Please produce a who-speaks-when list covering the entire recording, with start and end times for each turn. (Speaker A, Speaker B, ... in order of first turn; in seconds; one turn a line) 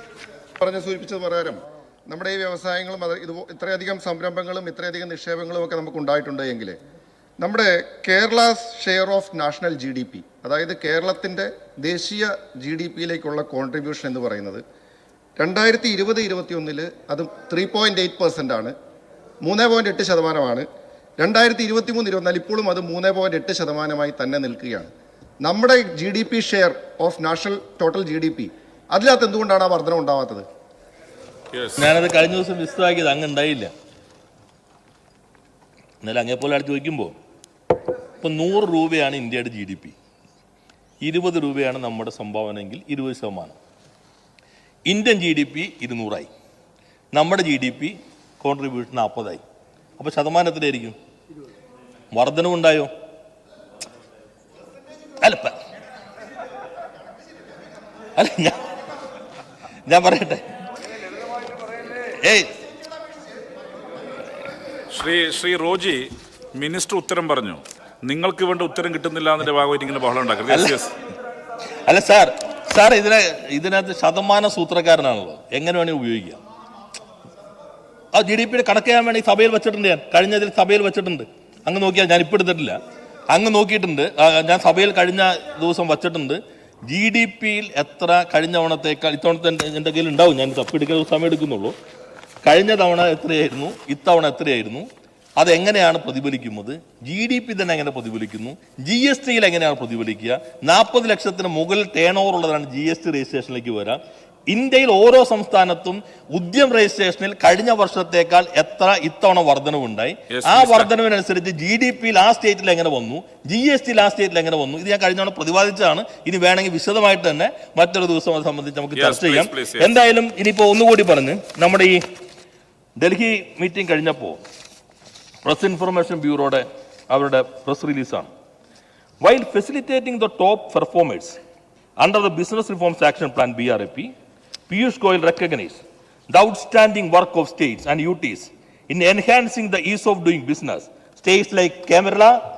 Speaker A: 0.6-6.8
Speaker A: 7.4-14.6
Speaker A: 15.4-18.8
Speaker A: 19.4-20.7
Speaker A: 21.2-24.9
Speaker A: 25.4-30.5
Speaker B: 31.5-31.8
Speaker C: 31.8-33.7
Speaker C: 36.0-37.1
Speaker C: 38.2-40.0
Speaker C: 41.0-43.6
Speaker C: 44.9-46.3
Speaker C: 47.1-49.4
Speaker C: 50.0-51.0
Speaker C: 52.1-52.9
Speaker C: 55.2-55.6
Speaker C: 58.2-58.7
Speaker C: 59.9-60.5
Speaker C: 62.1-62.5
Speaker B: 64.9-70.9
Speaker C: 70.5-70.8
Speaker C: 71.8-76.4
Speaker C: 78.1-82.8
Speaker C: 83.3-91.8
Speaker C: 92.4-94.9
Speaker C: 95.4-122.0
Speaker B: 110.3-110.9
Speaker B: 119.0-119.9
Speaker C: 123.0-124.4
Speaker C: 125.4-128.3
Speaker C: 129.2-131.4
Speaker C: 132.0-134.1
Speaker C: 134.7-142.4